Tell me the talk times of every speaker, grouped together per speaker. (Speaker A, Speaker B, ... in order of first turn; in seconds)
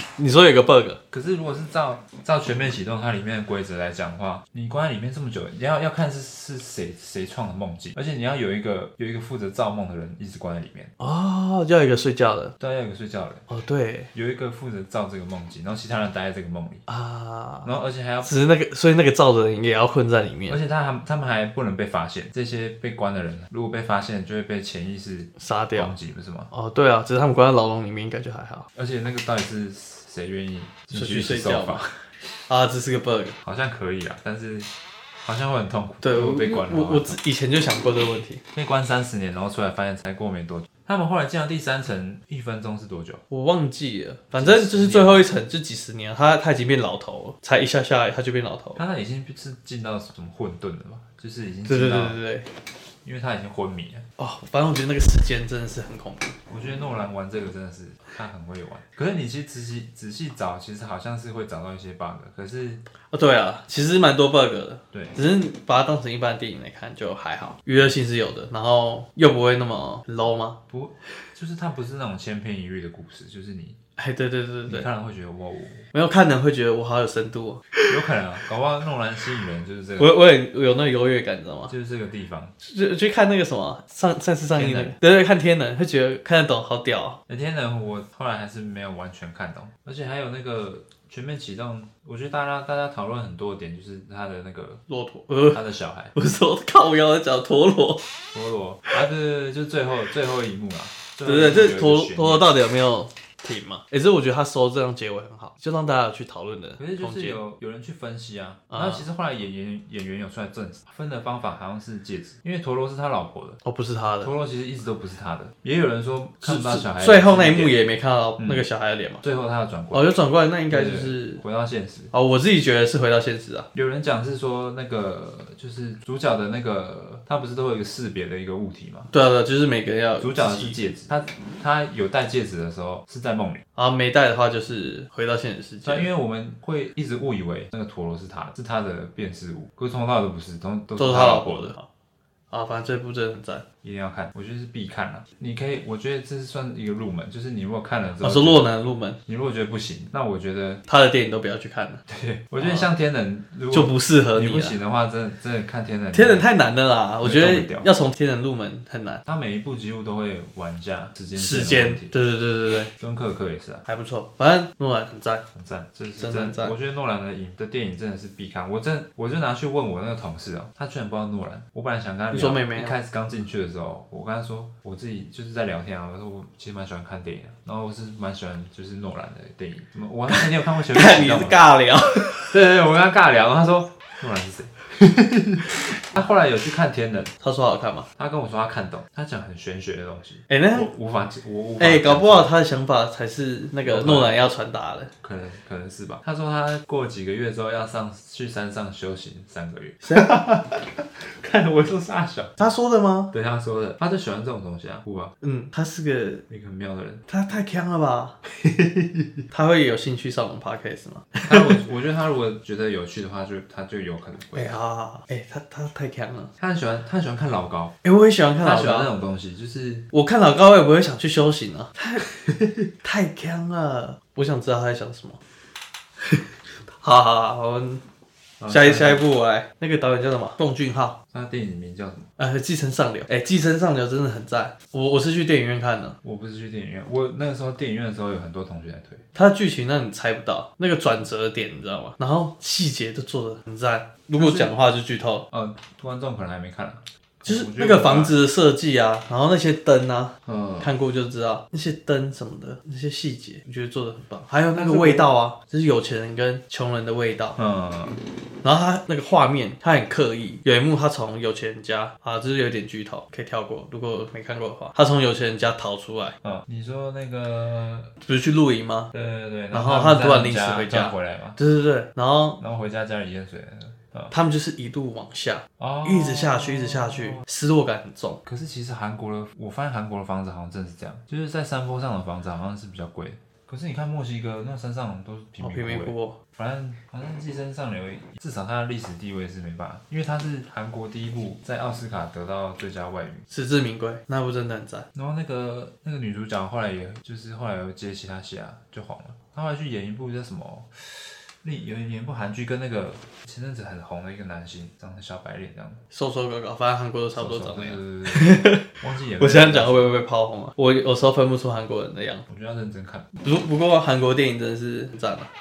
Speaker A: 0.2-1.0, 11.0-12.5, 13.5-14.1, 16.9-17.7, 18.2-20.6, 25.4-25.9, 26.5-28.7, 30.9-31.9, 32.5-33.4, 36.0-38.4, 43.3-48.8, 51.7-52.5, 54.2-56.4, 63.1-70.6, 74.0-74.9, 75.9-77.8, 80.0-81.7, 82.6-87.2, 94.9-95.6, 96.1-98.0, 101.2-107.4, 108.7-109.0, 113.6-114.3, 116.4-119.2, 119.9-121.4, 122.1-123.7, 129.1-130.8, 133.8-136.1, 141.0-141.9, 142.5-143.6, 148.2-149.2, 150.9-152.0, 152.6-152.9, 153.7-154.8, 156.1-159.2, 161.3-162.9, 163.9-165.4, 166.2-166.7, 172.3-172.9, 180.3-182.5, 187.4-188.1, 190.5-190.9, 191.8-195.1, 202.6-203.3, 205.4-206.4, 207.3-208.4, 209.5-211.8, 214.5-216.5, 218.0-219.1, 220.1-222.2, 223.0-225.4, 226.2-228.0, 228.7-231.2, 232.4-236.2, 239.3-245.4, 247.4-257.6, 258.6-266.4, 268.2-269.1, 269.7-272.6, 274.3-278.4, 285.6-286.4, 293.5-295.1, 306.1-312.4, 313.4-315.5
Speaker B: 1.1-10.9, 12.6-13.5, 14.1-16.8, 17.6-18.3, 20.5-26.5, 28.7-31.8, 33.4-34.7, 35.2-37.2, 38.5-43.2, 44.3-45.3, 48.8-52.2, 53.0-54.0, 56.5-62.8, 64.9-65.2, 70.7-73.8, 74.7-75.9, 77.9-80.2, 81.7-82.5, 84.5-84.9, 87.3-94.8, 95.5-96.1, 98.3-102.5, 106.8-113.6, 114.2-117.8, 118.4-118.7, 119.2-120.1, 120.7-122.1, 123.7-129.1, 130.2-133.6, 135.8-141.7, 143.8-148.7, 149.2-150.8, 152.1-156.5, 157.2-157.9, 159.2-162.1, 163.0-163.8, 165.5-181.7, 182.4-187.3, 188.2-192.5, 193.8-194.4, 195.2-202.6, 203.3-205.3, 206.5-207.2, 208.5-209.4, 211.4-214.7, 216.6-217.9, 218.6-220.1, 222.2-222.9, 228.6-229.2, 231.3-232.3, 236.2-239.2, 244.3-244.8, 245.5-248.4, 250.4-250.9, 254.7-255.3, 257.6-258.2, 266.4-268.1, 269.1-271.6, 272.6-274.3, 275.8-277.4, 278.4-293.4, 295.1-306.0, 307.4-310.1, 312.5-313.3